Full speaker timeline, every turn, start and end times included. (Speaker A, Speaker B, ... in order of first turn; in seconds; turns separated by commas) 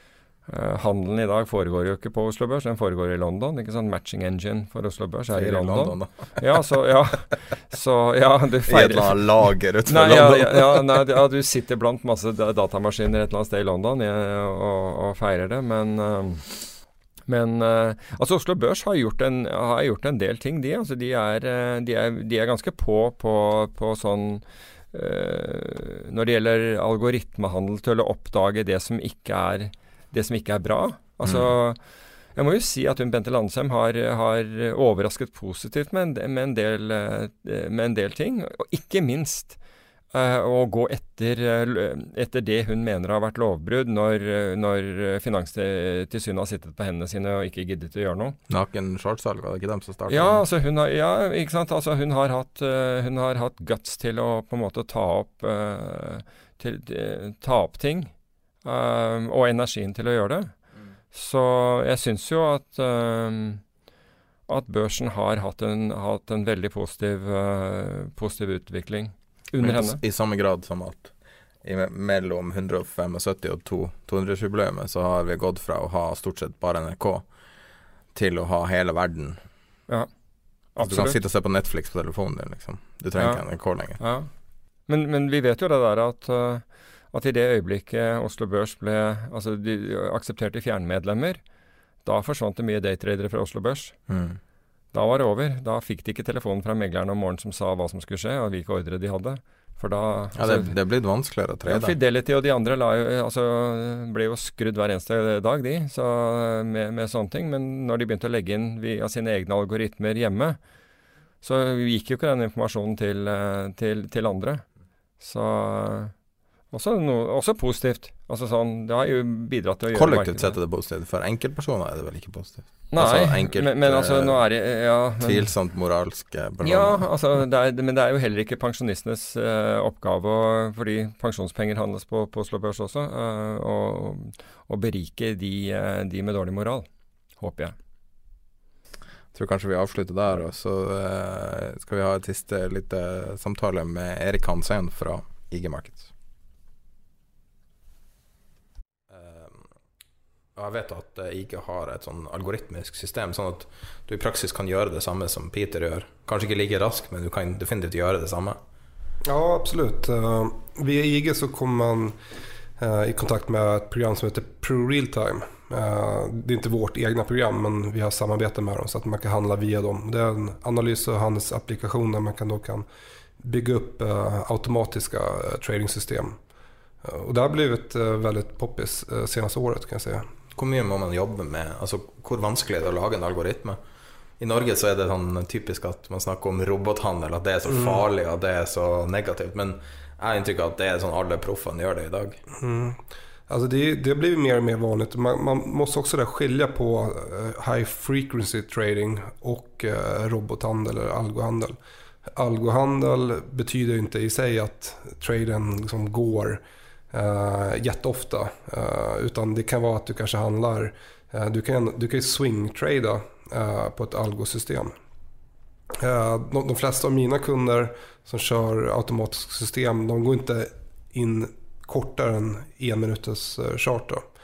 Speaker A: 0.5-16.5, Speaker B: 5.3-6.4, Speaker B: 8.7-11.0, Speaker A: 17.3-31.8, Speaker B: 31.2-31.5, Speaker A: 32.4-39.6, Speaker A: 40.1-48.4, Speaker B: 48.5-50.4, Speaker A: 50.1-58.1, Speaker A: 58.6-60.5, Speaker A: 61.1-63.6, Speaker A: 64.5-70.0, Speaker B: 69.6-77.2, Speaker B: 78.1-79.4, Speaker A: 80.8-81.2, Speaker B: 80.8-84.0, Speaker A: 83.2-83.4, Speaker A: 84.0-84.3, Speaker A: 84.9-91.4, Speaker A: 92.0-94.0, Speaker B: 94.1-94.4, Speaker A: 94.9-100.7, Speaker B: 100.4-102.0, Speaker A: 101.7-110.6, Speaker A: 111.4-114.6, Speaker A: 115.2-116.1, Speaker A: 116.7-120.6, Speaker B: 119.9-124.5, Speaker A: 122.9-125.5, Speaker B: 125.2-127.1, Speaker A: 126.6-136.9, Speaker A: 137.4-137.8, Speaker B: 139.3-146.1, Speaker B: 149.1-149.7, Speaker B: 150.6-158.6, Speaker C: 159.3-162.2, Speaker C: 162.8-172.9, Speaker C: 173.4-176.4, Speaker C: 177.0-180.3, Speaker B: 180.6-183.8, Speaker B: 184.4-192.4, Speaker C: 187.7-188.0, Speaker C: 192.5-201.8, Speaker C: 202.4-214.9, Speaker C: 216.0-224.2